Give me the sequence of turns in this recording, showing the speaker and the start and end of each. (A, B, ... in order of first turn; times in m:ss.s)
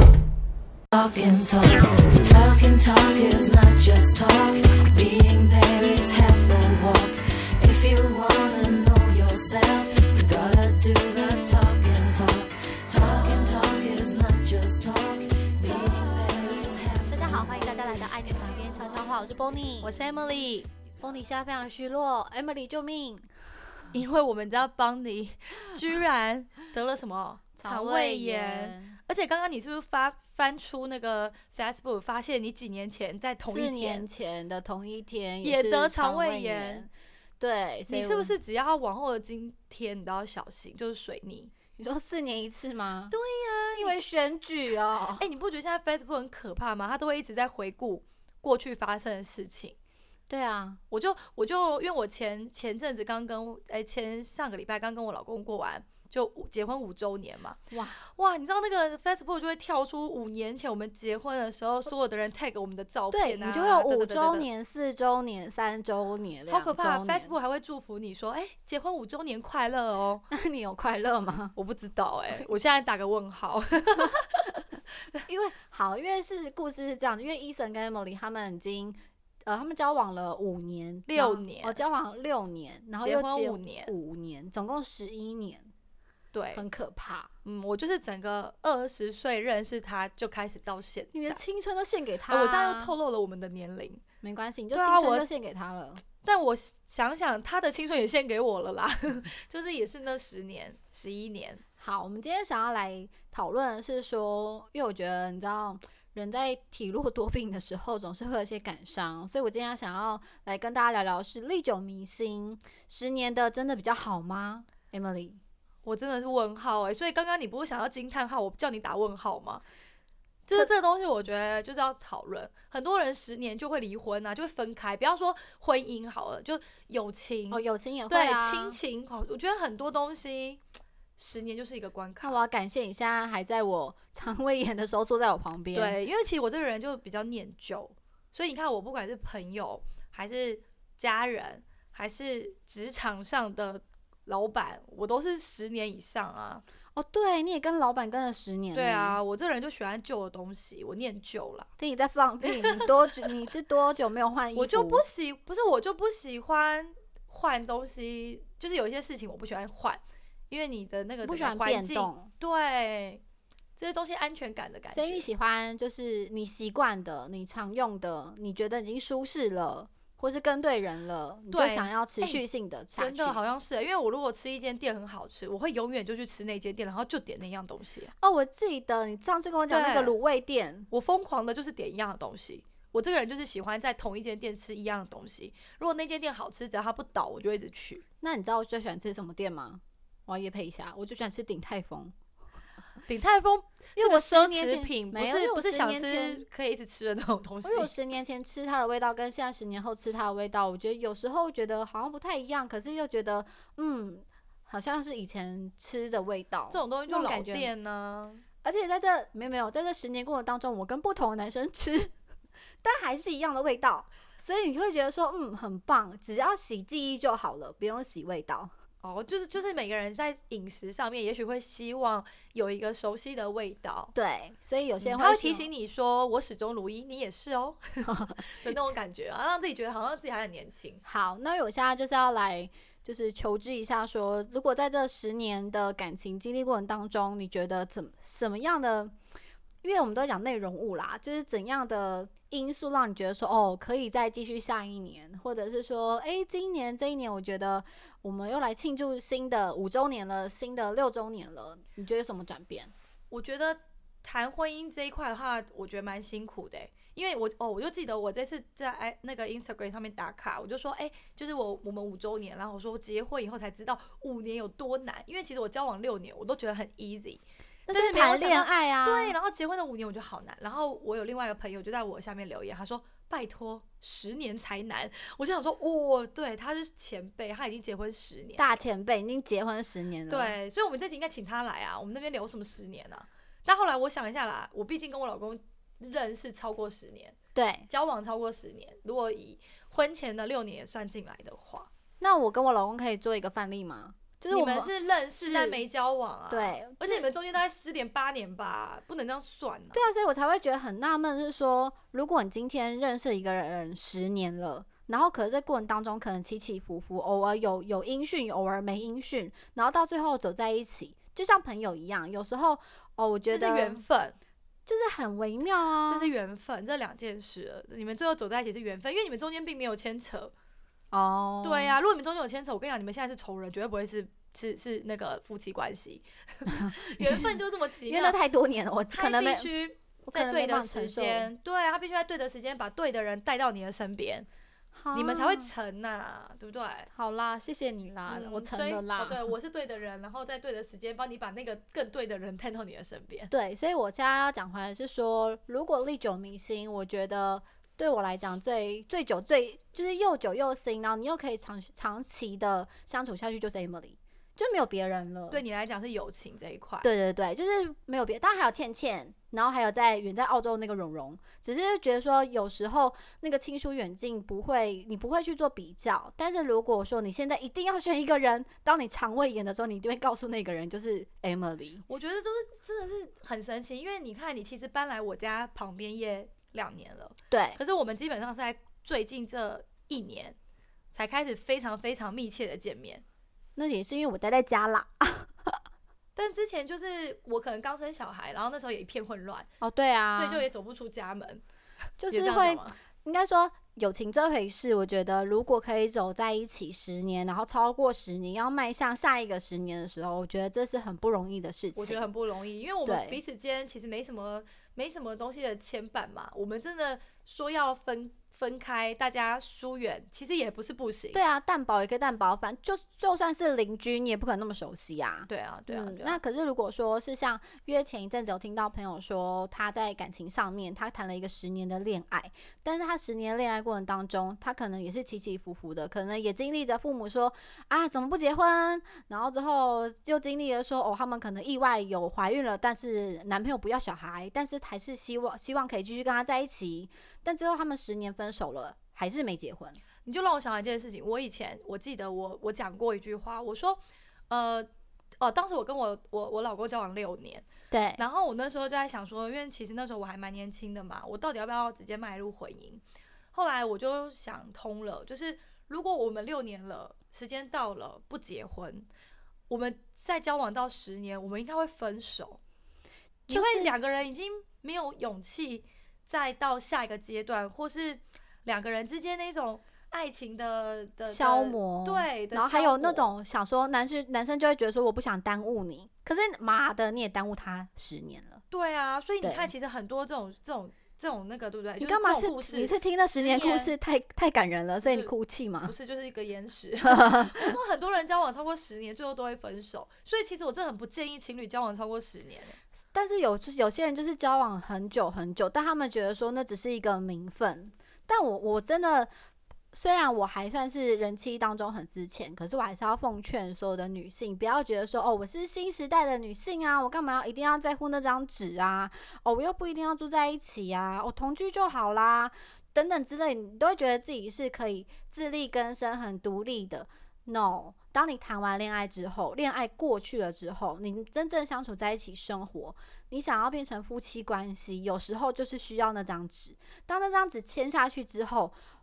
0:00.9-0:17.5 A
0:17.1-0:19.9 B
0:19.8-0:20.7 C
0:21.0-0:23.4 B
0:23.9-0:34.1 C
0:27.6-0:29.0 B
0:33.5-0:38.3 B
0:35.4-0:36.8 C
0:37.9-0:41.5 C
0:41.8-0:43.1 B
0:43.1-0:43.9 C
0:43.8-0:45.2 B
0:45.2-0:49.8 C
0:50.3-0:50.8 B
0:50.9-1:04.4 C
0:57.7-0:58.0 B
1:03.1-1:07.3 B
1:06.5-1:10.2 C
1:10.3-1:11.5 B
1:11.6-1:14.6 C
1:15.3-1:25.7 B
1:21.1-1:21.8 C
1:23.0-1:23.9 C
1:26.3-1:26.6 C
1:26.5-1:27.3 B
1:27.4-1:31.4 C
1:31.1-1:32.9 B
1:32.3-1:34.0 C
1:34.2-1:36.0 B
1:34.7-1:35.3 C
1:36.2-1:41.6 C
1:41.8-1:55.4 B
1:55.8-1:59.6 C
2:00.4-2:10.6 C
2:07.5-2:08.8 B
2:11.2-2:12.4 C
2:12.2-2:16.0 B
2:15.7-2:26.6 C
2:26.9-2:29.2 B
2:28.7-2:31.7 C
2:31.8-2:35.0 B
2:32.4-2:33.3 C
2:34.5-2:43.2 C
2:41.2-2:42.3 B
2:43.8-2:45.3 C
2:44.9-2:53.4 B
2:51.5-2:52.4 C
2:53.0-2:58.1 C
2:58.2-3:00.9 B
2:59.7-3:00.1 C
3:00.9-3:08.0 C
3:08.2-3:12.1 B
3:13.0-3:17.9 C
3:14.0-3:16.4 B
3:17.6-3:27.7 B
3:26.7-3:28.4 C
3:28.6-3:32.1 B
3:32.8-3:38.7 B
3:39.0-3:44.1 C
3:44.1-3:45.7 B
3:45.0-3:51.0 C
3:48.0-3:48.4 B
3:51.0-3:59.1 B
3:59.8-4:13.0 B
4:13.3-4:38.8 C
4:27.9-4:29.4 B
4:38.6-4:40.6 B
4:40.3-4:47.4 C
4:47.5-4:47.9 B
4:47.9-4:51.9 C
4:52.2-4:55.8 B
4:54.5-5:00.0 C
4:56.5-4:57.3 B
4:59.9-5:14.0 B
5:13.5-5:14.4 C
5:14.8-5:16.3 B
5:16.1-5:20.5 C
5:21.1-5:22.0 B
5:21.6-5:28.4 C
5:26.7-5:27.4 B
5:28.1-5:29.7 B
5:29.1-5:34.5 C
5:30.2-5:31.5 B
5:34.9-5:35.7 B
5:35.1-5:37.1 C
5:37.1-5:39.5 B
5:38.3-5:43.5 C
5:43.5-5:55.6 B
5:55.5-5:57.1 C
5:57.0-6:12.0 B
6:12.1-6:20.6 C
6:17.5-6:17.8 B
6:21.1-6:23.2 C
6:23.8-6:25.8 B
6:26.4-6:29.7 C
6:29.8-6:30.6 B
6:30.3-6:31.6 C
6:32.2-6:42.2 B
6:32.3-6:33.0 C
6:41.9-6:51.4 C
6:43.0-6:43.4 B
6:51.3-7:20.0 B
6:55.5-6:56.4 C
7:20.2-7:24.9 C
7:25.4-7:27.6 C
7:27.9-7:28.2 B
7:28.2-7:33.0 C
7:33.5-7:39.1 C
7:39.7-7:42.6 C
7:43.5-7:53.3 C
7:43.5-7:43.9 B
7:51.3-7:58.6 B
7:58.7-8:03.9 C
7:59.4-7:59.7 B
8:02.0-8:05.9 B
8:05.0-8:05.3 C
8:05.8-8:12.8 C
8:07.0-8:07.7 B
8:13.1-8:19.3 B
8:19.9-8:48.7 B